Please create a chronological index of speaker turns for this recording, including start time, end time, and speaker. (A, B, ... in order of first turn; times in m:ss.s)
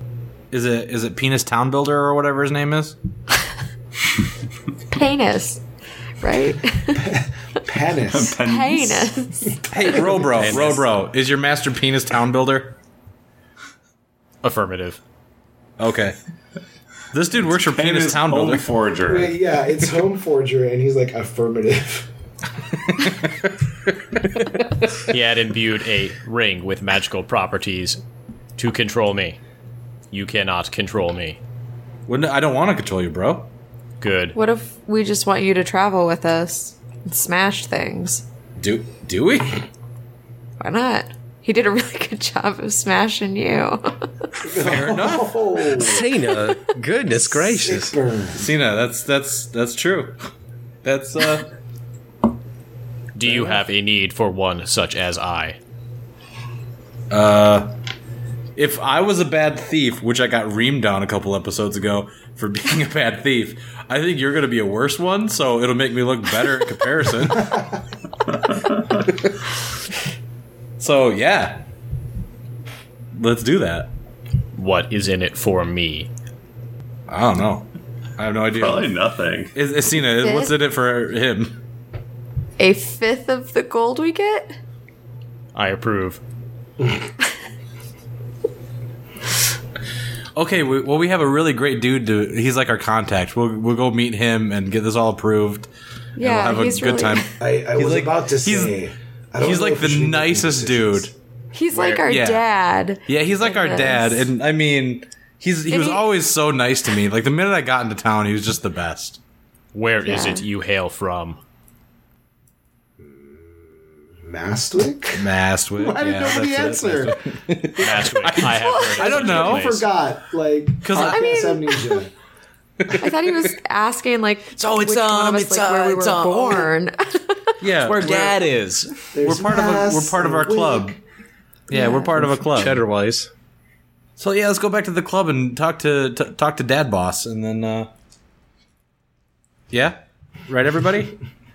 0:00.5-0:03.0 A
0:04.9-0:05.6 B
0:06.2-0:07.0 B
0:06.9-0:08.4 C
0:08.1-0:09.1 D
0:08.4-0:09.9 B
0:09.4-0:10.6 C
0:09.7-0:12.8 A
0:10.4-0:10.8 E
0:10.4-0:10.8 F
0:14.4-0:15.0 F
0:15.8-0:16.2 A
0:17.1-0:18.7 A
0:17.4-0:19.4 D
0:19.1-0:22.1 C
0:22.9-0:23.4 A
0:24.9-0:28.0 F
0:28.6-0:29.4 F
0:30.1-0:31.4 F
0:32.1-0:33.5 A
0:34.0-0:34.4 F
0:34.4-0:38.2 B
0:38.6-0:39.6 A
0:40.6-0:44.0 B
0:44.4-0:46.2 C
0:44.5-0:45.8 A
0:45.8-0:48.0 E
0:47.4-0:48.4 C
0:48.3-0:50.2 A
0:50.8-0:51.5 A
0:53.1-0:55.6 F
0:57.1-0:57.7 A
0:58.6-1:07.6 A
1:09.1-1:09.4 A
1:10.8-1:11.6 A
1:13.1-1:13.9 A
1:14.5-1:16.1 F
1:17.1-1:18.9 A
1:18.5-1:19.6 D
1:19.5-1:21.6 A
1:20.2-1:20.5 B
1:22.6-1:24.6 B
1:25.6-1:26.2 F
1:30.4-1:38.8 A
1:36.2-1:37.4 B
1:37.4-1:41.1 C
1:39.4-1:41.1 A
1:41.5-1:44.2 B
1:41.7-1:42.1 F
1:42.1-1:42.4 A
1:43.1-1:49.2 A
1:45.7-1:46.0 B
1:49.7-1:51.4 F
1:50.0-1:50.4 B
1:53.0-1:57.2 C
1:55.2-1:59.8 A
1:57.8-1:59.8 F
1:59.0-2:02.1 C
2:00.8-2:01.5 A
2:00.9-2:02.0 B
2:03.0-2:07.6 B
2:03.0-2:03.5 A
2:04.6-2:06.7 F
2:07.6-2:08.4 A
2:07.8-2:08.9 F
2:09.1-2:11.0 C
2:09.2-2:11.0 A
2:11.7-2:12.8 A
2:11.7-2:12.2 B
2:12.2-2:13.3 E
2:14.2-2:17.9 A
2:19.7-2:21.2 A